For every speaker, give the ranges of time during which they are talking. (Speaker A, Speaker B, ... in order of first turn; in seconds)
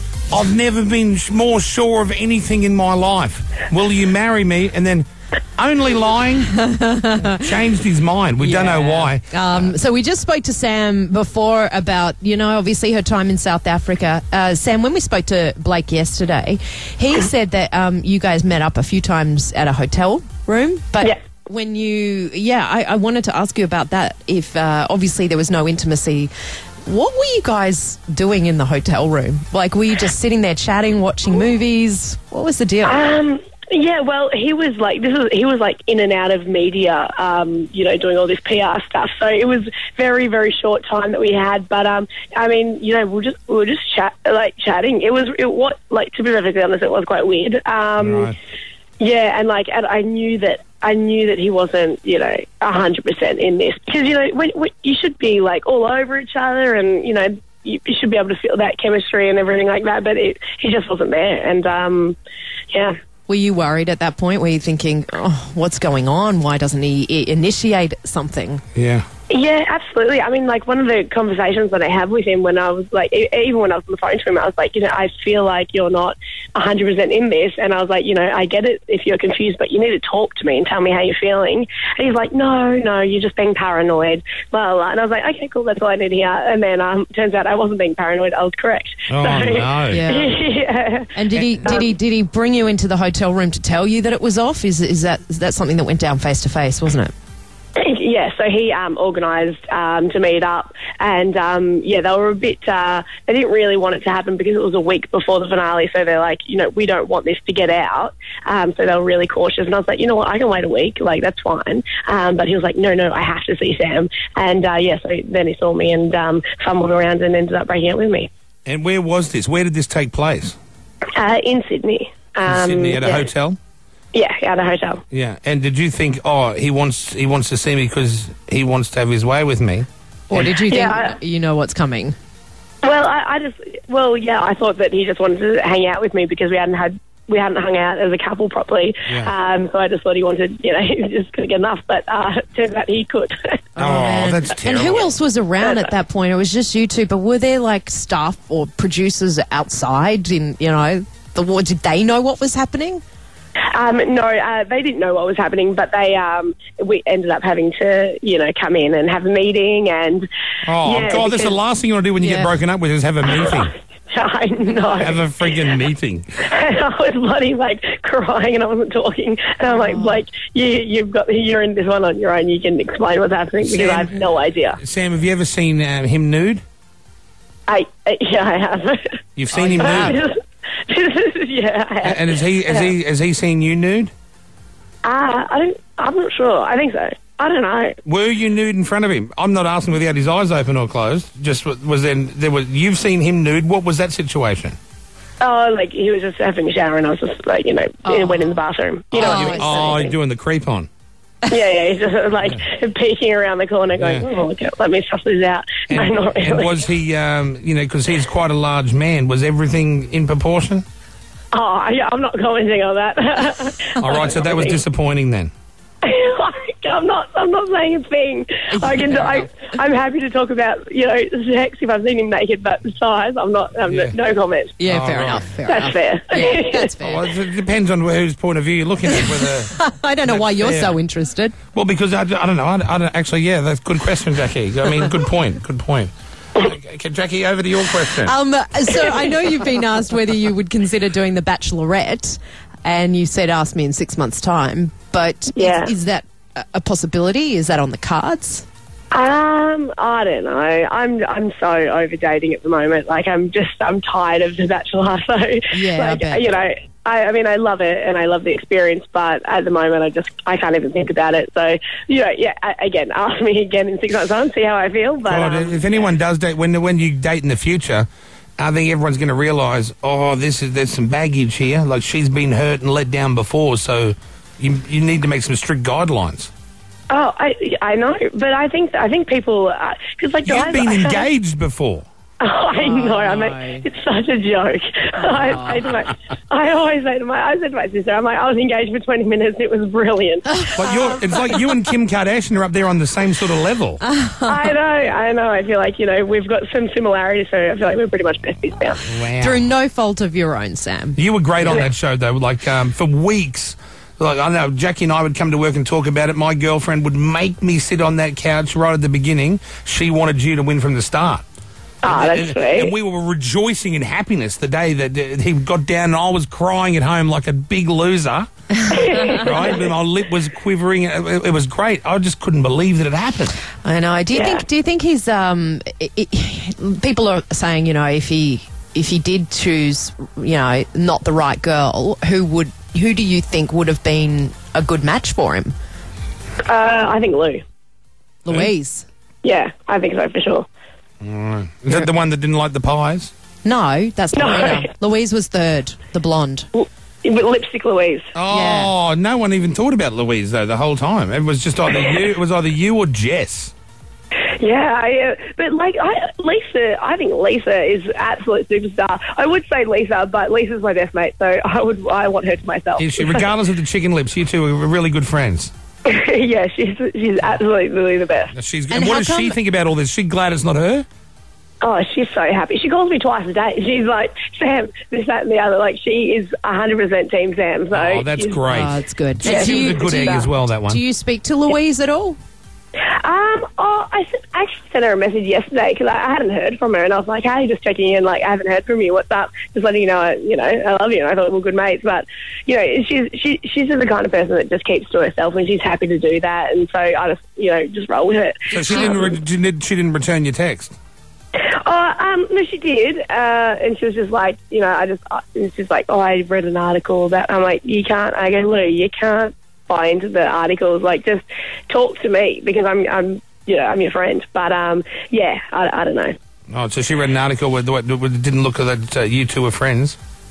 Speaker A: 0.3-6.6, 7.2-9.7, 48.0-48.4, 68.8-69.1, 89.1-90.0, 118.7-120.6, 122.5-123.6, 125.1-130.5, 143.8-145.1, 160.6-163.7, 164.9-166.3, 173.7-174.2, 174.8-176.6, 179.4-180.2, 182.0-184.1, 188.1-194.8, 199.1-200.9, 204.0-204.2, 205.9-210.8, 214.0-215.5, 223.9-224.1, 224.8-225.5, 227.0-231.0, 231.7-238.3, 265.3-268.1, 268.6-276.5, 280.4-282.1, 290.8-294.0, 299.1-299.7, 301.2-311.4, 312.1-323.6, 341.2-343.3, 348.4-353.7, 363.0-365.7, 368.5-371.1, 377.9-381.0, 398.7-400.9, 416.7-420.2
Speaker B: 6.6-7.4, 8.4-26.3, 26.8-33.1, 63.3-68.6, 89.9-90.4, 91.2-97.1, 130.3-132.2, 143.8-153.0, 162.2-162.5, 169.8-170.1, 179.6-180.1, 198.1-198.5, 199.2-200.0, 218.7-219.5, 224.8-227.2, 229.1-231.6, 238.2-248.7, 255.7-256.4, 282.8-283.9, 285.2-285.8, 290.5-290.8, 294.0-294.7, 299.4-301.8, 323.8-335.7, 338.4-339.1, 343.6-346.7, 348.5-348.9, 368.9-369.6, 378.7-382.4
Speaker C: 32.9-48.4, 49.0-62.2, 69.3-91.9, 97.8-118.3, 121.2-123.3, 124.1-125.0, 130.7-131.2, 132.8-143.6, 145.6-145.9, 153.7-160.3, 160.8-161.6, 163.4-165.2, 166.4-174.8, 177.7-179.1, 179.8-180.4, 180.9-182.9, 185.0-188.0, 195.4-200.2, 201.5-206.8, 211.5-214.8, 216.0-224.8, 225.7-226.9, 245.6-245.9, 249.1-265.9, 277.1-281.3, 282.4-290.7, 294.4-299.0, 312.0-312.9, 318.9-319.9, 324.3-324.6, 336.6-337.6, 339.4-340.7, 344.3-344.9, 346.8-348.3, 354.6-363.5, 366.1-368.5, 371.8-378.6, 379.4-380.5, 383.1-399.4, 401.6-416.4